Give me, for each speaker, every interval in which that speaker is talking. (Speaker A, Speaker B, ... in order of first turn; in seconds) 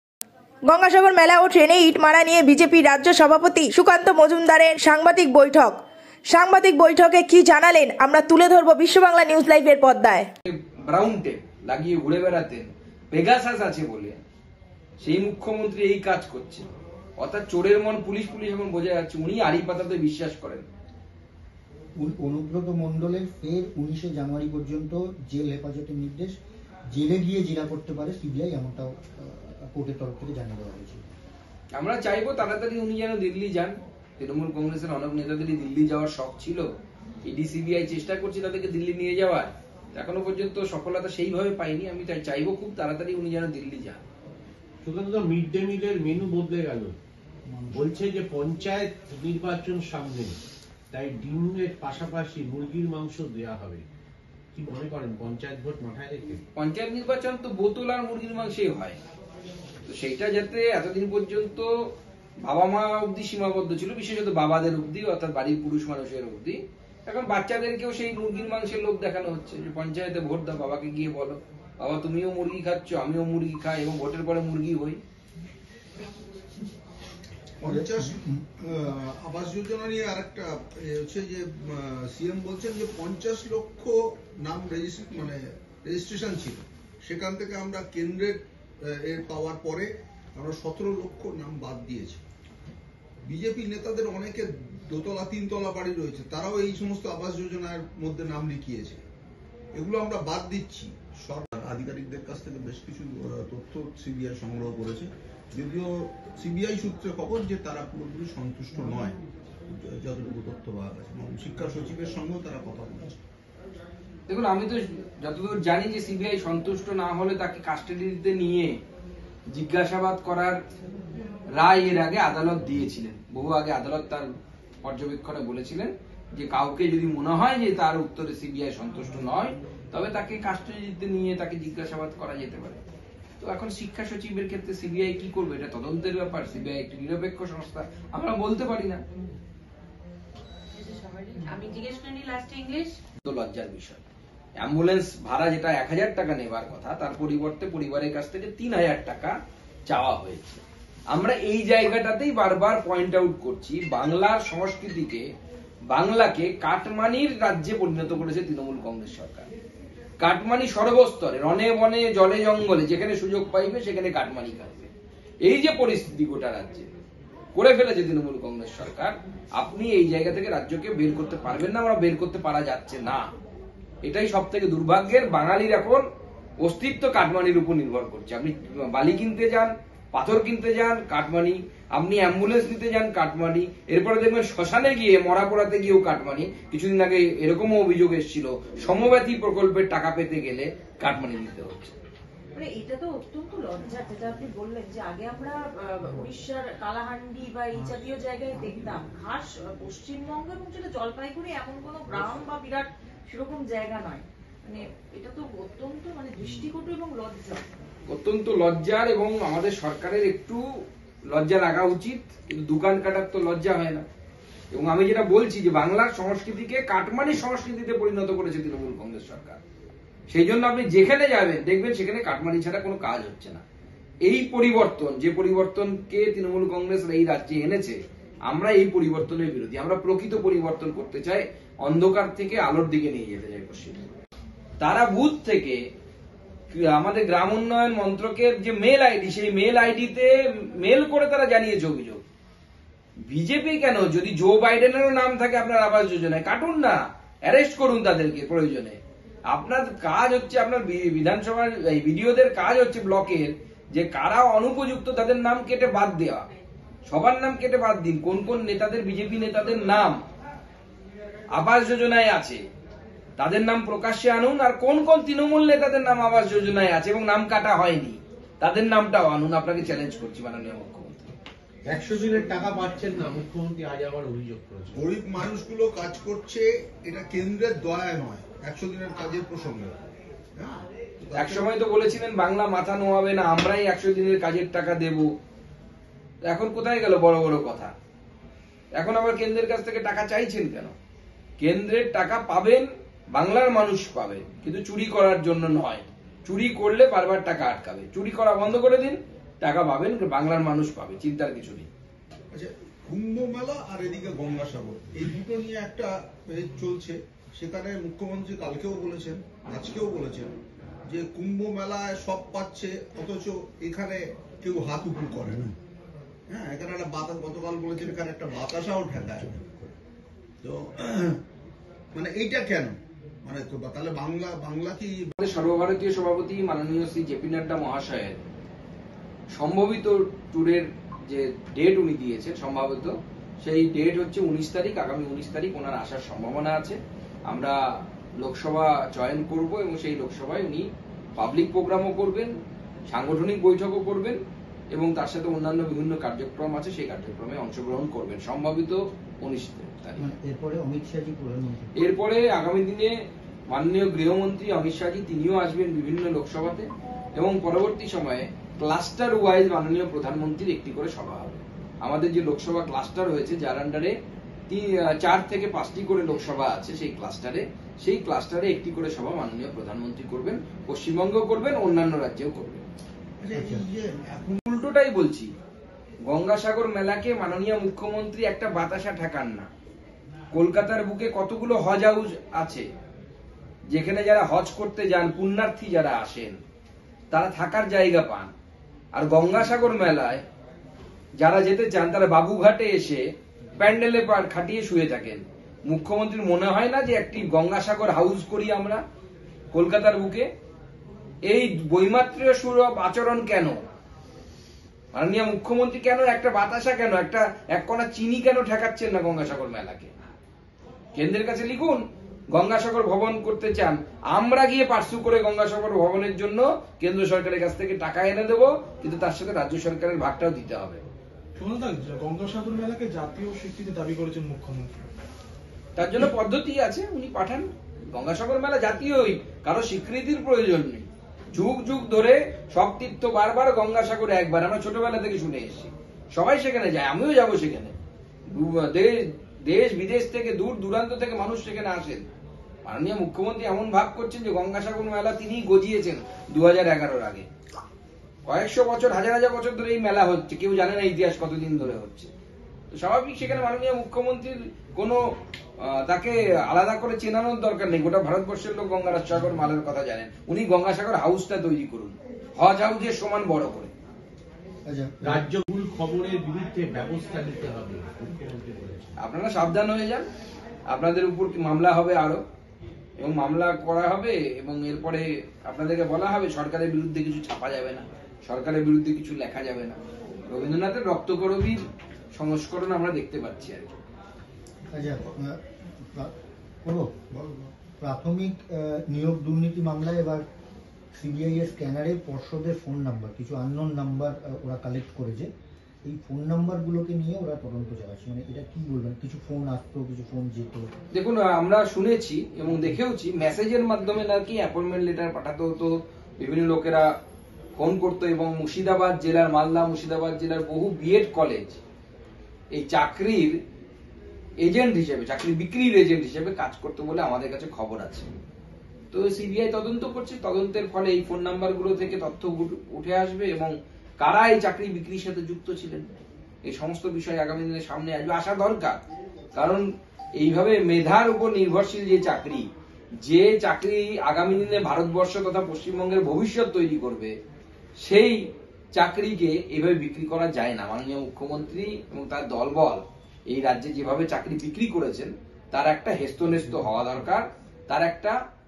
Speaker A: 0.6-5.8, 6.3-10.3, 193.7-194.3
Speaker B: 10.4-14.2, 15.0-20.7, 31.8-36.7, 37.2-44.0, 56.6-59.0, 59.9-61.7, 62.4-75.0, 114.3-118.8, 119.5-120.6, 121.5-124.3, 124.8-132.8, 133.4-139.0, 143.2-144.0, 144.6-149.3, 149.9-155.2, 155.9-159.5, 160.2-164.9, 165.4-166.9, 167.5-173.3, 174.1-176.0, 176.6-192.0, 208.1-210.7, 211.3-214.1, 214.7-219.6, 220.3-223.6, 224.2-228.0, 228.5-234.1, 234.8-235.8, 236.7-242.2, 243.2-249.0, 249.5-256.5, 257.1-260.2, 261.5-262.6, 263.4-271.3, 281.4-285.3, 286.4-287.9, 288.9-290.9, 291.6-301.9, 325.4-328.5, 329.5-337.0, 337.5-337.8, 338.4-340.9, 341.4-342.5, 343.1-344.4, 344.9-350.2, 351.9-353.1, 353.7-364.1, 364.7-372.9, 374.7-375.5, 376.3-379.7, 380.5-382.9, 383.9-386.6, 387.3-388.5, 389.1-390.4, 391.4-393.2, 393.8-399.0, 399.7-400.5, 401.5-403.8, 405.1-410.3, 411.1-421.0, 426.0-437.9, 438.5-442.3, 442.9-447.5, 448.5-452.3, 452.9-455.2, 455.8-463.9, 469.2-470.2, 470.9-472.4, 473.2-483.9, 501.1-507.1, 507.8-511.8, 512.7-513.5, 514.6-518.3, 519.1-526.1, 526.6-529.0, 529.5-529.9, 530.4-532.7, 533.2-537.3, 538.0-538.4, 539.0-548.4
Speaker C: 22.0-26.4, 26.9-31.0, 47.5-48.0, 77.7-78.4, 350.2-351.9, 373.5-373.8, 464.9-465.5, 484.9-486.3, 486.8-487.1, 488.0-490.4, 491.1-495.5, 496.1-500.9
Speaker D: 44.8-47.0, 47.7-50.4, 50.9-53.9, 54.5-56.4, 271.9-275.0, 465.2-469.2
Speaker E: 77.6-92.2, 93.2-99.0, 99.7-109.2, 109.7-113.2, 274.9-280.0, 280.6-281.6, 302.5-310.6, 311.1-315.8, 316.5-319.9, 320.6-321.4, 322.1-325.3, 373.4-374.6, 487.3-487.7
Speaker F: 141.6-142.9, 192.8-193.3, 195.0-195.5, 196.2-202.9, 203.6-205.4, 206.3-206.6
Speaker G: 421.6-425.1